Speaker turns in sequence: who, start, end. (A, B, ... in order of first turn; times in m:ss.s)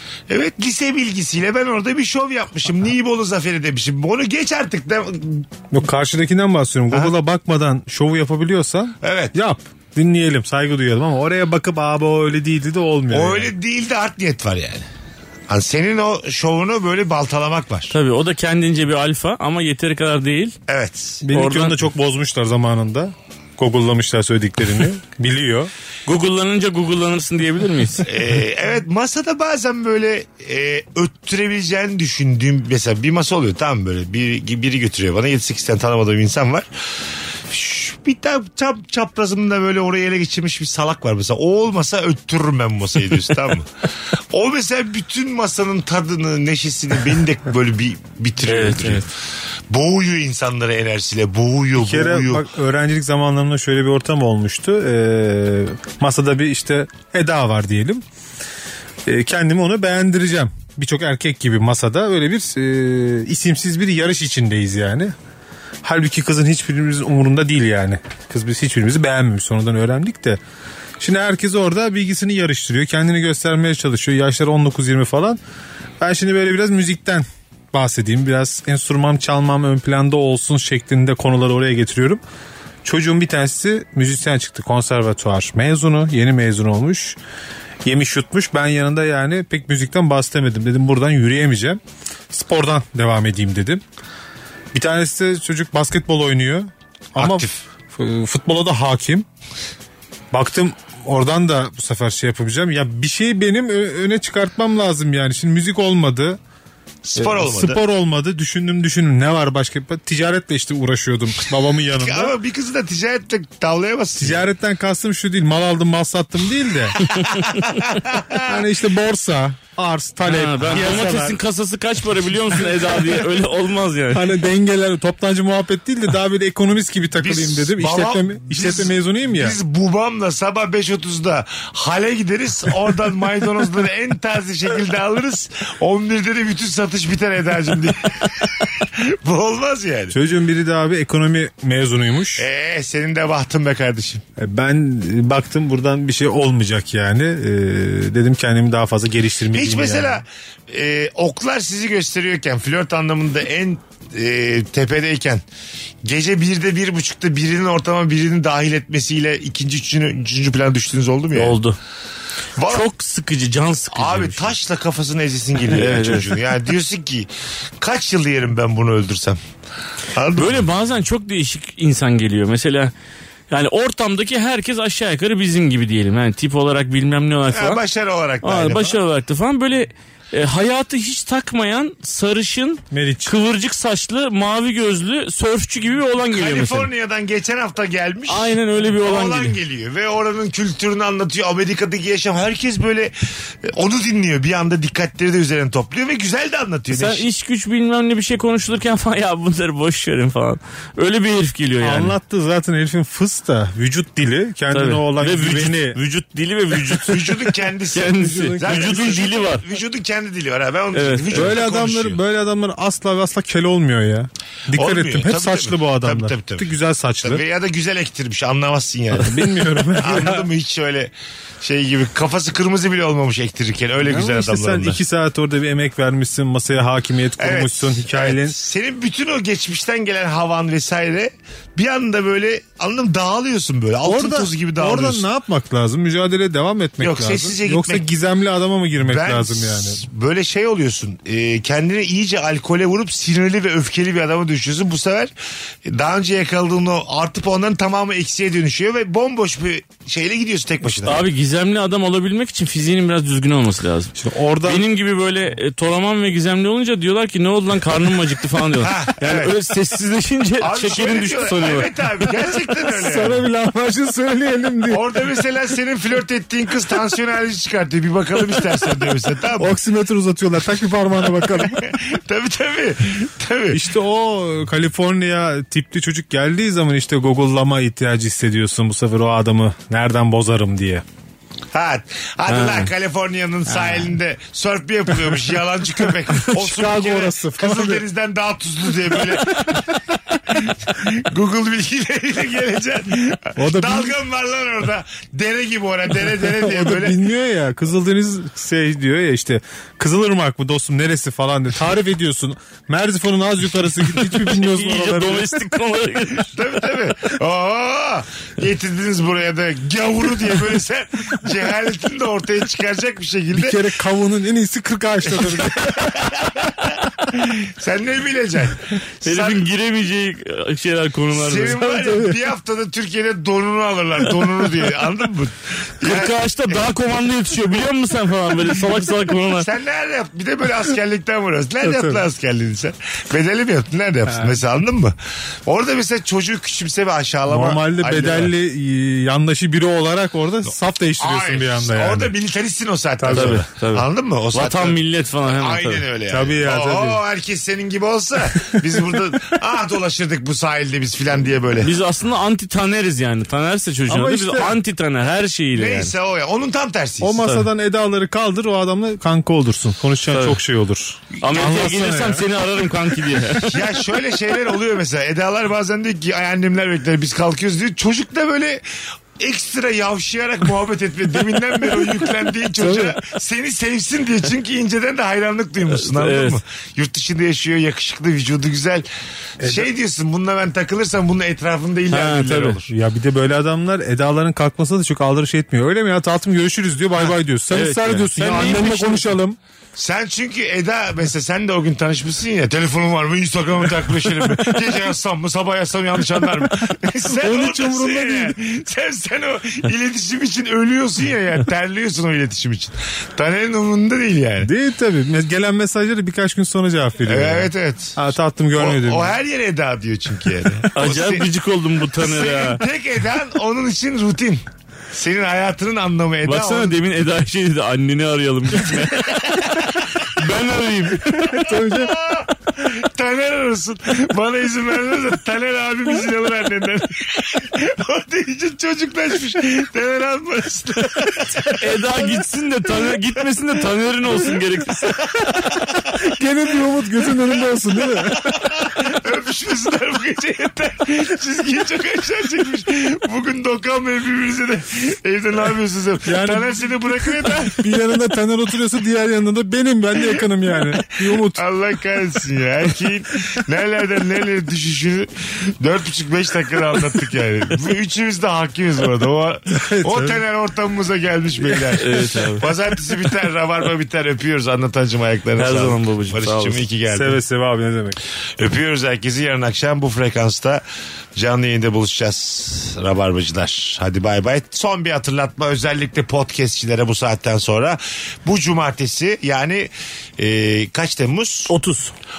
0:00.3-0:05.4 A
0:05.7-0:13.5 B
0:09.0-0:09.3 A
0:13.1-0:14.8 A
0:15.5-0:17.9 A
0:17.9-0:20.5 C
0:20.7-0:21.2 A
0:21.2-0:25.7 B
0:21.3-0:21.8 C
0:26.1-0:28.1 C
0:28.0-0:36.7 A
0:37.5-0:43.7 A
0:44.3-0:49.1 A
0:48.4-0:49.0 C
0:49.7-0:52.5 A
0:51.8-0:58.0 B
0:59.0-1:05.1 B
1:05.8-1:10.4 B
1:11.0-1:15.4 B
1:16.0-1:22.2 B
1:22.8-1:27.2 B
1:27.8-1:31.8 B
1:32.3-1:33.8 B
1:34.7-1:39.2 B
1:37.2-1:37.6 A
1:40.3-1:46.4 B
1:47.0-1:47.8 A
1:47.2-1:52.3 B
1:52.0-1:54.4 A
1:54.2-1:57.0 B
1:57.0-1:57.8 C
1:57.2-1:58.5 A
1:58.3-2:01.4 B
2:00.2-2:04.3 C
2:04.1-2:09.6 B
2:07.2-2:20.2 A
2:20.1-2:22.5 B
2:22.4-2:24.2 A
2:24.4-2:30.2 B
2:29.5-2:35.4 A
2:36.0-2:41.6 A
2:41.3-2:41.8 C
2:42.6-2:42.8 A
2:42.7-2:44.5 C
2:43.9-2:47.3 A
2:45.7-2:46.4 C
2:47.8-2:49.4 A
2:50.1-2:50.6 A
2:50.4-2:52.9 C
2:53.5-2:57.8 C
2:57.5-2:59.0 A
2:58.4-3:06.9 C
3:02.9-3:03.3 B
3:06.3-3:17.2 A
3:08.3-3:09.6 C
3:16.9-3:22.2 C
3:21.8-3:26.0 B
3:24.7-3:27.3 C
3:27.0-3:32.2 A
3:27.9-3:29.6 C
3:28.1-3:29.4 B
3:30.9-3:31.5 C
3:31.3-3:37.4 B
3:34.7-3:45.0 A
3:39.2-3:40.5 B
3:44.0-3:48.6 B
3:47.4-3:55.2 A
3:54.0-4:00.0 B
3:57.0-3:58.1 A
3:59.0-4:05.3 A
4:05.8-4:11.2 A
4:11.0-4:14.1 C
4:14.2-4:14.8 B
4:14.6-4:21.9 C
4:18.8-4:19.5 A
4:20.6-4:23.4 A
4:22.9-4:25.2 B
4:24.9-4:29.8 A
4:29.6-4:31.9 B
4:31.6-4:33.8 A
4:33.7-4:41.0 B
4:41.7-4:49.8 A
4:42.5-4:42.9 C
4:43.7-4:44.1 B
4:46.5-4:48.0 B
4:50.5-4:57.2 A
4:53.6-4:54.2 B
4:56.5-5:05.6 B
5:04.2-5:06.5 C
5:06.5-5:13.8 A
5:13.5-5:16.1 B
5:15.4-5:16.8 A
5:17.3-5:19.6 A
5:19.2-5:21.9 C
5:21.3-5:26.9 A
5:21.8-5:22.2 B
5:26.0-5:29.7 C
5:29.6-5:35.1 A
5:31.8-5:32.2 B
5:35.6-5:38.5 A
5:37.5-5:42.3 B
5:41.2-5:51.9 A
5:43.2-5:43.6 B
5:43.3-5:46.0 C
5:46.3-5:47.2 B
5:51.8-5:56.1 C
5:54.1-5:54.7 B
5:55.7-5:57.4 A
5:57.2-6:02.4 B
6:00.3-6:00.6 C
6:01.4-6:03.8 C
6:03.6-6:08.8 A
6:09.4-6:19.1 A
6:12.8-6:13.1 B
6:15.9-6:16.6 C
6:19.6-6:19.9 B
6:19.6-6:22.9 A
6:22.1-6:22.8 C
6:22.9-6:29.6 B
6:27.7-6:29.3 C
6:30.0-6:44.7 A
6:37.2-6:38.5 B
6:44.6-6:49.4 B
6:47.2-6:48.2 A
6:48.7-6:51.5 A
6:51.0-6:52.8 C
6:52.2-6:57.0 A
6:56.4-7:01.6 C
6:59.2-7:00.2 A
7:01.5-7:02.1 B
7:01.7-7:12.4 A
7:11.8-7:15.2 C
7:15.3-7:16.0 A
7:16.2-7:18.9 B
7:18.2-7:28.0 A
7:26.2-7:31.6 B
7:31.0-7:47.4 A
7:39.7-7:40.4 B
7:42.0-7:42.6 C
7:45.6-7:46.8 C
7:47.1-7:48.2 B
7:48.6-7:50.8 A
7:51.4-8:01.7 A
8:01.7-8:02.1 C